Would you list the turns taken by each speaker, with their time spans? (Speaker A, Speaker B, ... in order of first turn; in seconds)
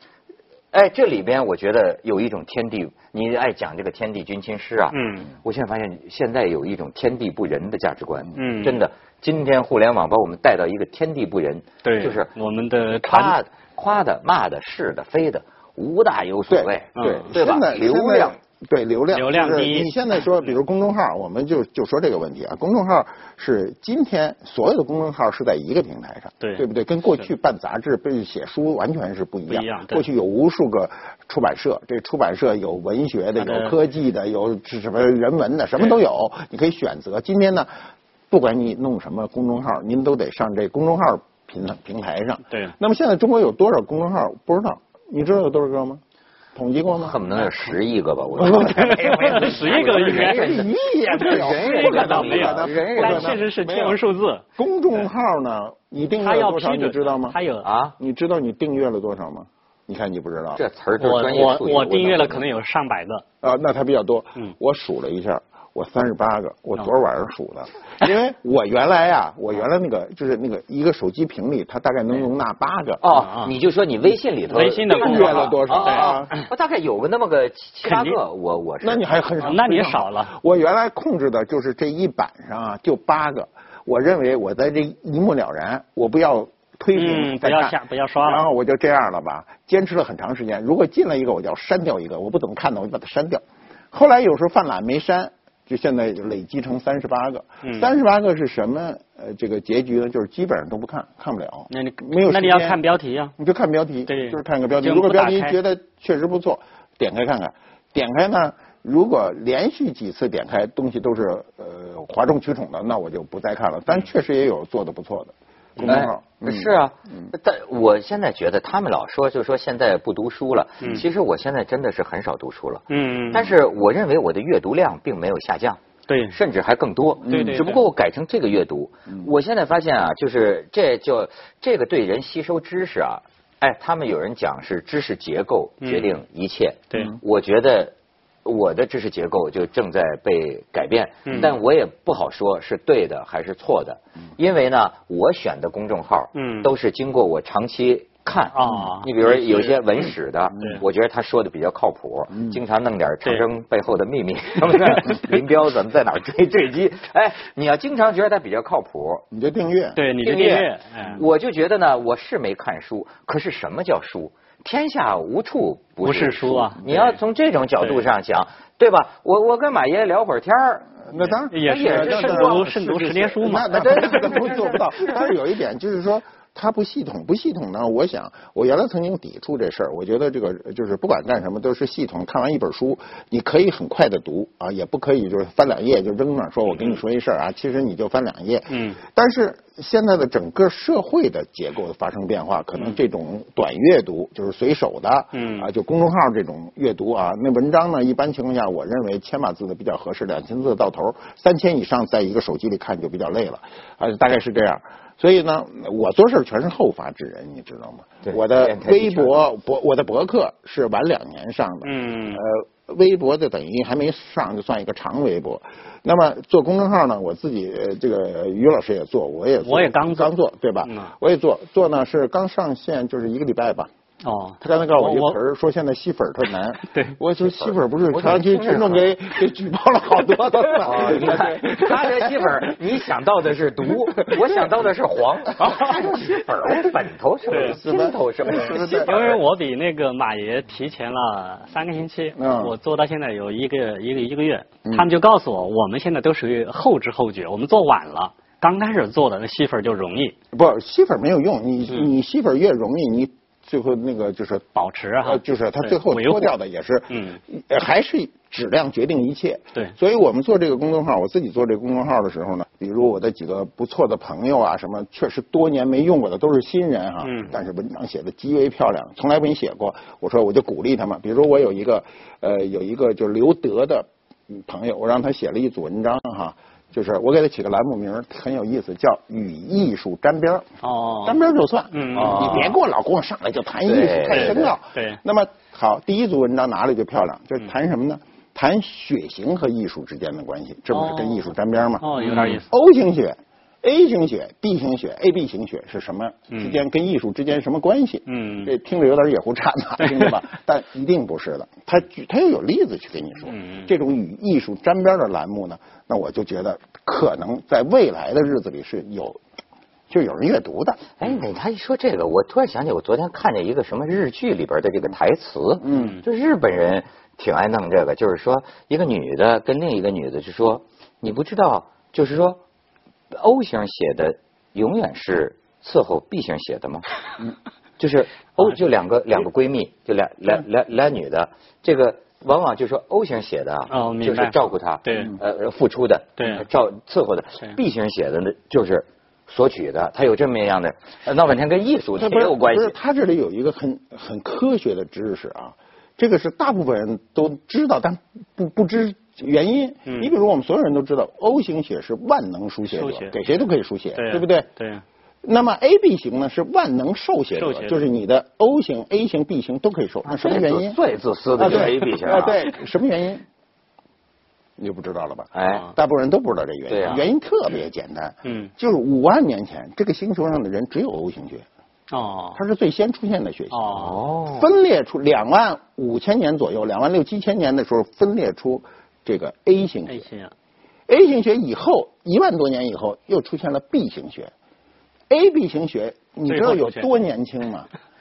Speaker A: 0.7-12.3, 13.0-18.4, 46.9-53.4, 57.6-57.9, 60.6-62.5, 73.0-79.0, 115.8-137.9, 138.4-159.2, 160.2-175.2, 208.2-209.4, 227.6-229.1, 230.8-239.4, 282.1-282.8, 283.8-284.7, 292.2-292.6, 311.2-322.6, 323.3-327.1, 328.0-342.9, 360.3-362.6, 365.5-365.9, 366.9-367.2, 373.9-374.7
Speaker B: 4.9-5.3, 8.3-8.8, 11.8-13.4, 16.9-17.3, 19.1-20.2, 29.5-30.1, 33.4-33.8, 48.8-54.4, 56.2-57.7, 61.0-63.2, 73.1-73.5, 74.5-76.4, 77.8-78.2, 79.4-80.3, 86.9-88.5, 97.6-97.9, 101.7-103.3, 104.1-105.6, 115.8-116.0, 122.9-123.5, 126.1-126.4, 127.3-127.8, 135.8-136.1, 141.2-141.5, 146.3-146.7, 148.5-149.8, 159.9-161.2, 166.0-166.8, 171.5-174.3, 188.7-189.0, 195.3-195.7, 211.8-212.4, 219.6-221.1, 224.2-225.4, 226.9-227.2, 237.5-237.8, 238.5-250.3, 254.8-256.5, 257.1-257.4, 267.2-267.6, 280.8-281.4, 281.9-282.8, 284.3-285.2, 290.9-291.4, 292.0-292.7, 296.5-296.8, 298.3-298.7, 300.0-300.4, 303.5-303.9, 315.9-316.2, 333.9-335.4, 336.4-336.6, 350.1-350.3, 352.9-353.6, 354.1-355.0, 357.6-358.1, 368.4-368.7, 372.1-372.6, 373.7-374.2, 380.1-380.5, 386.5-387.1
Speaker C: 16.5-37.7, 38.3-46.0, 46.5-47.5, 48.4-54.0, 54.6-57.4, 58.0-60.6, 63.4-73.0, 74.9-76.3, 78.8-102.8, 103.4-117.3, 127.2-127.7, 159.3-160.0, 166.8-167.1, 171.1-223.9, 224.6-232.8, 233.9-234.7, 235.6-236.8, 237.5-239.3, 242.4-242.7, 244.8-245.1, 250.5-254.7, 255.2-280.7, 281.2-309.4, 310.1-311.0, 315.8-316.2, 342.2-354.7, 355.4-361.0, 361.6-363.4, 364.8-371.6, 372.6-380.2, 381.1-384.5, 385.3-387.9